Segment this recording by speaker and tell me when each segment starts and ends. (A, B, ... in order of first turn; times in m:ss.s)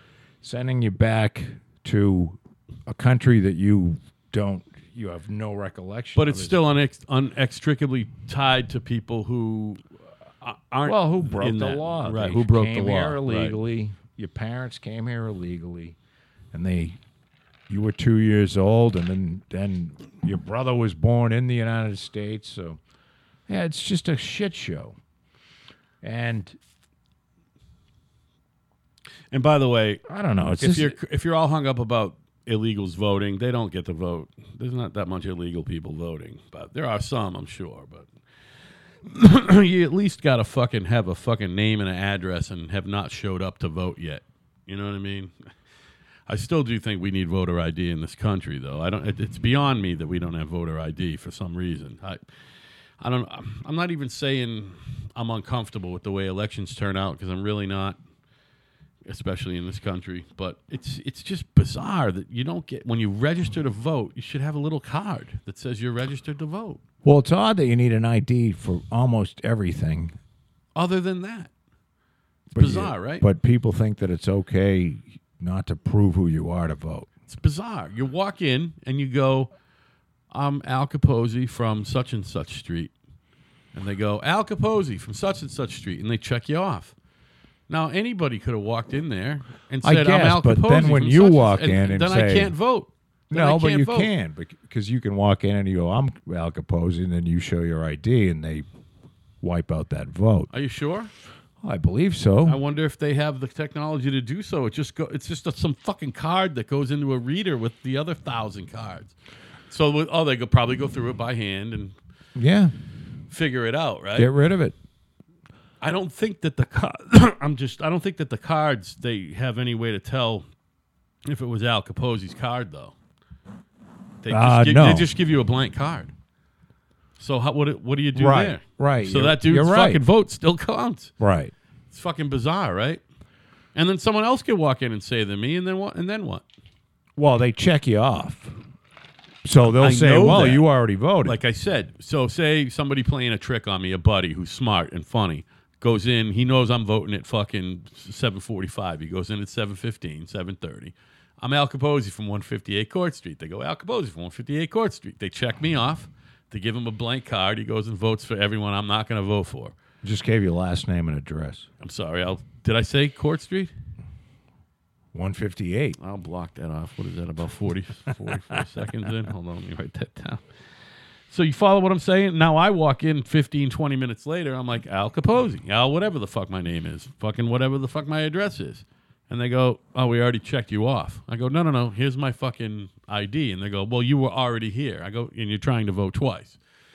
0:00.4-0:06.6 A
0:06.2-0:09.8 B
0:10.4-0:13.6 B
0:10.8-0:16.0 A
0:16.5-0:17.0 A
0:17.7-0:22.8 A
0:23.5-0:25.0 A
0:26.0-0:26.6 A
0:29.3-0:30.0 B
0:30.1-0:31.0 A
0:30.6-0:38.1 B
0:39.0-0:45.3 B
0:46.3-0:52.2 B
0:53.0-0:58.0 B
0:59.0-1:06.8 B
1:07.0-1:10.2 A
1:10.7-1:11.5 B
1:12.5-1:17.1 A
1:12.6-1:13.2 B
1:17.3-1:19.5 B
1:20.3-1:22.9 B
1:23.7-1:26.9 B
1:27.7-1:34.1 B
1:29.8-1:32.5 A
1:33.3-1:38.6 A
1:39.4-1:40.5 A
1:40.5-1:41.1 B
1:41.6-1:42.6 A
1:42.4-1:49.1 B
1:49.7-1:52.0 B
1:52.4-1:52.7 A
1:53.3-1:54.3 B
1:54.1-1:54.7 A
1:55.8-2:00.4 B
2:01.2-2:02.9 B
2:04.2-2:06.1 B
2:04.3-2:05.1 A
2:07.2-2:11.1 B
2:08.1-2:10.0 A
2:11.2-2:11.5 A
2:11.9-2:13.0 B
2:13.7-2:16.4 B
2:17.2-2:18.5 A
2:19.4-2:21.4 A
2:19.8-2:20.7 B
2:21.2-2:39.8 B
2:40.0-2:41.7 A
2:41.8-2:43.7 B
2:45.1-2:46.0 A
2:46.0-2:50.4 B
2:51.3-3:06.6 B